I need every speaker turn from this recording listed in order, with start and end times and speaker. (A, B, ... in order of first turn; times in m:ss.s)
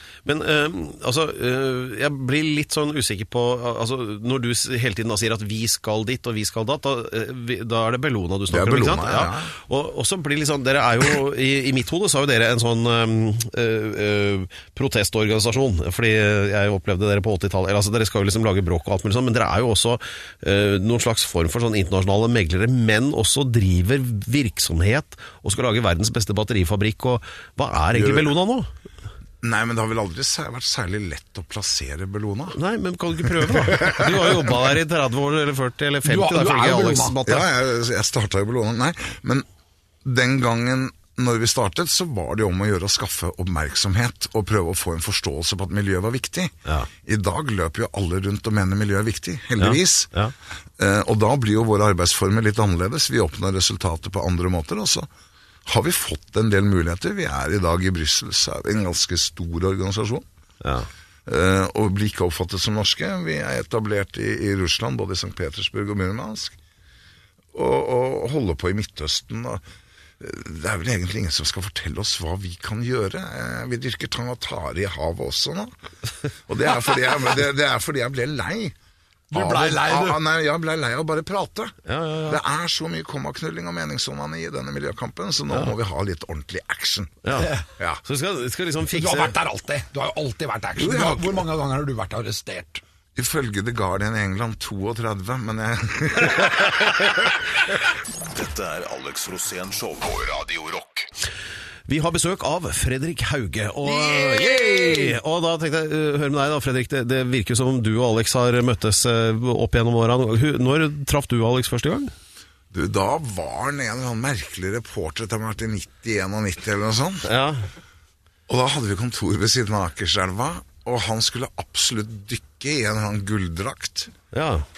0:00.2-0:28.7 A
0:08.5-0:09.5 B
0:27.9-0:28.3 B
0:29.4-0:32.6 B
0:32.5-0:37.5 A
0:33.3-0:34.5 B
0:36.0-0:37.2 C
0:37.2-0:39.4 B
0:40.0-0:50.1 B
0:49.6-0:50.3 A
0:50.8-0:55.1 B
0:55.6-1:00.3 B
1:00.6-1:00.9 A
1:01.2-1:06.6 B
1:07.5-1:09.6 B
1:10.2-1:15.7 B
1:16.5-1:18.7 B
1:19.3-1:20.2 C
1:19.3-1:21.7 B
1:21.9-1:22.4 A
1:22.2-1:28.0 B
1:27.2-1:27.5 A
1:28.0-1:29.3 A
1:28.9-1:32.8 C
1:30.8-1:31.5 B
1:33.1-1:37.5 B
1:37.8-1:41.1 D
1:41.9-1:52.1 A
1:44.0-1:45.1 C
1:52.7-1:57.3 B
1:57.2-1:57.7 A
1:58.5-2:04.1 B
2:04.3-2:04.6 A